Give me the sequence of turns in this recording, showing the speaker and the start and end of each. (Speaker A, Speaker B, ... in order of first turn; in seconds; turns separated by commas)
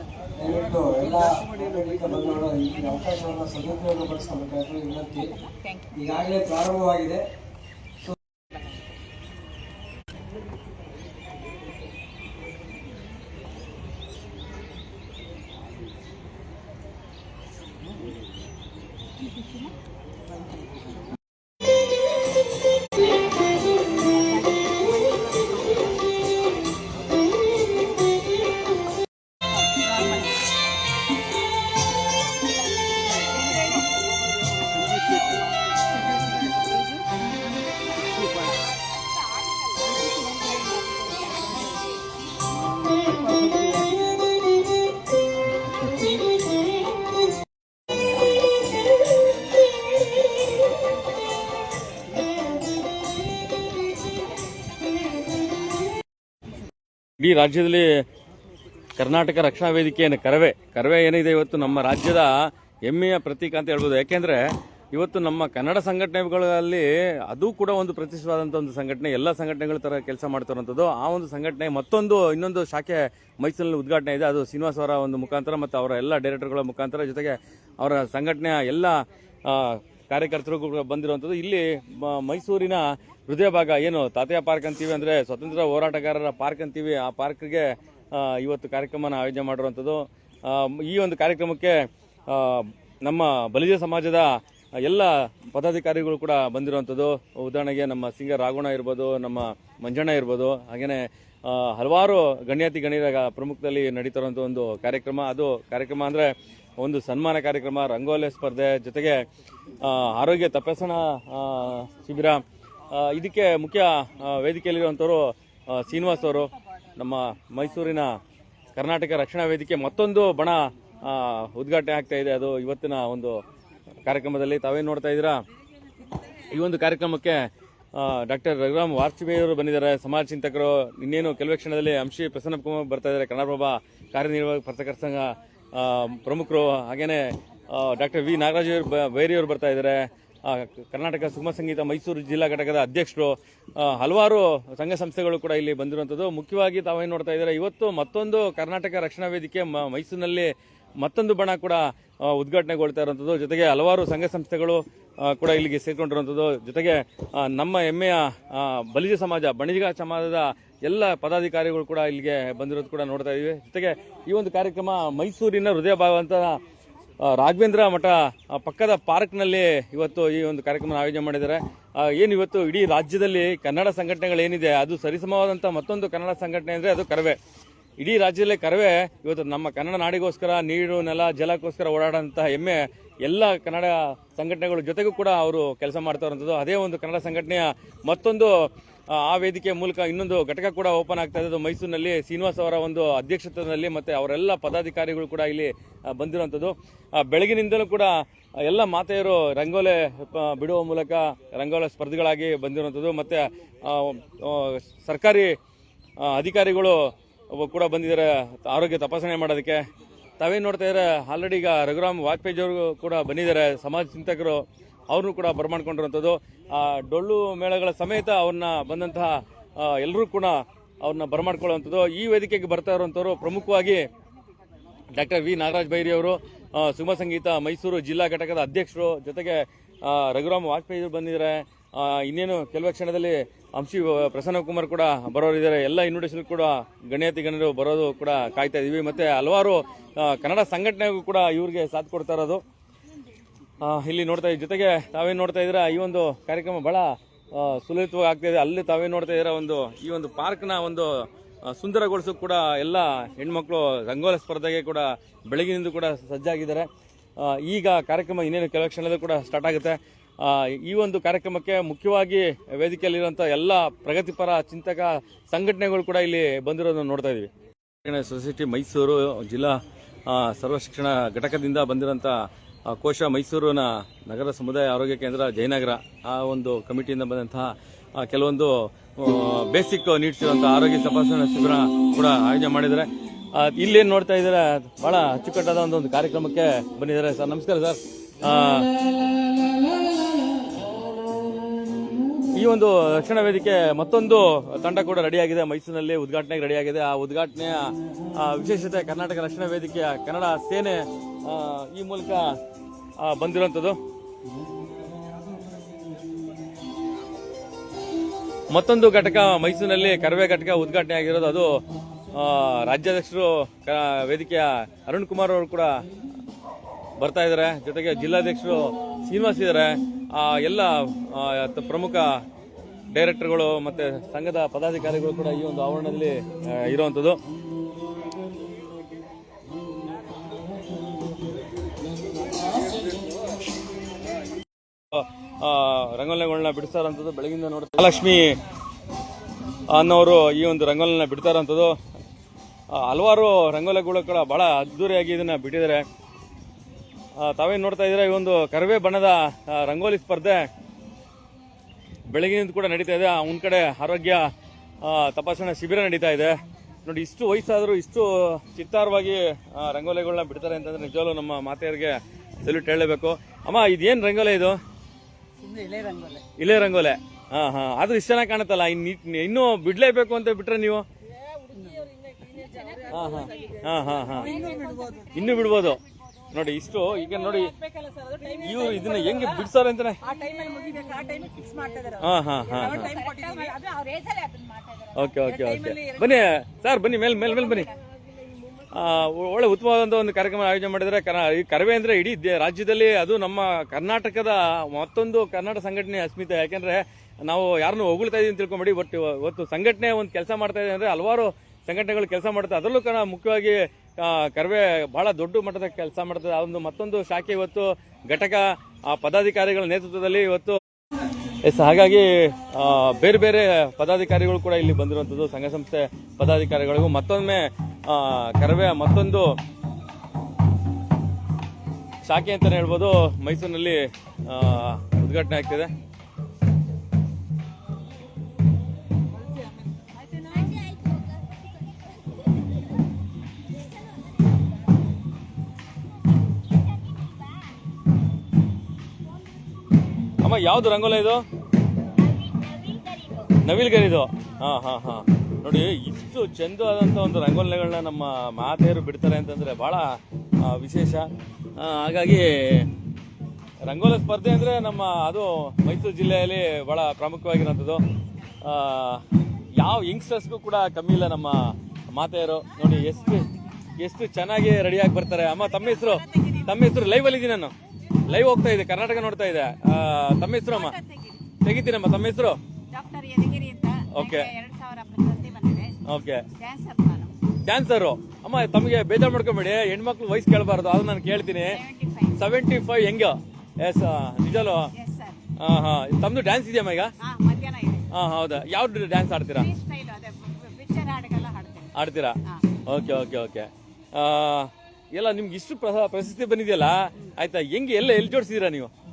Speaker A: 0.4-7.2, Speaker B: 39.6-41.8, Speaker C: 57.2-58.0, Speaker C: 59.0-109.2, Speaker C: 109.8-118.2, Speaker C: 118.8-123.4, Speaker C: 124.0-125.4, Speaker C: 126.3-166.6, Speaker C: 167.2-177.4, Speaker C: 178.0-205.6, Speaker C: 206.2-209.8, Speaker C: 210.4-224.0, Speaker C: 225.1-242.6, Speaker C: 243.8-267.5, Speaker C: 268.0-288.9, Speaker C: 292.5-302.4, Speaker C: 303.2-304.0, Speaker C: 308.7-311.7, Speaker C: 312.3-315.9, Speaker C: 317.2-322.4, Speaker C: 323.1-327.4, Speaker C: 335.1-338.6, Speaker C: 339.9-341.9, Speaker C: 342.9-346.0, Speaker C: 347.4-350.6, Speaker C: 352.3-354.5, Speaker C: 355.0-364.8, Speaker D: 365.6-366.4, Speaker C: 366.6-371.0, Speaker D: 371.7-373.5, Speaker C: 373.1-374.7, Speaker D: 374.4-375.4, Speaker C: 375.3-377.7, Speaker D: 377.9-379.0, Speaker C: 378.5-380.3, Speaker D: 380.2-386.3, Speaker C: 382.2-383.2, Speaker B: 383.2-384.9, Speaker C: 385.1-387.9, Speaker C: 388.9-410.8, Speaker C: 411.6-419.6, Speaker C: 422.2-425.9, Speaker D: 430.2-430.9, Speaker B: 430.6-431.2, Speaker B: 437.2-437.7, Speaker C: 440.4-441.4, Speaker B: 442.3-443.5, Speaker C: 443.6-452.9, Speaker C: 453.8-458.0, Speaker C: 458.6-459.2, Speaker C: 459.8-467.7, Speaker B: 465.6-466.8, Speaker C: 468.2-471.0, Speaker B: 470.7-471.5, Speaker C: 471.6-472.6, Speaker B: 472.9-475.9, Speaker C: 474.1-474.5, Speaker C: 476.0-476.5, Speaker B: 476.5-477.3, Speaker C: 477.6-481.8, Speaker B: 481.6-482.5, Speaker C: 482.3-484.9, Speaker B: 484.9-485.4, Speaker C: 485.6-487.1, Speaker B: 487.2-488.1, Speaker C: 488.1-489.7, Speaker B: 489.5-491.9, Speaker C: 491.9-498.9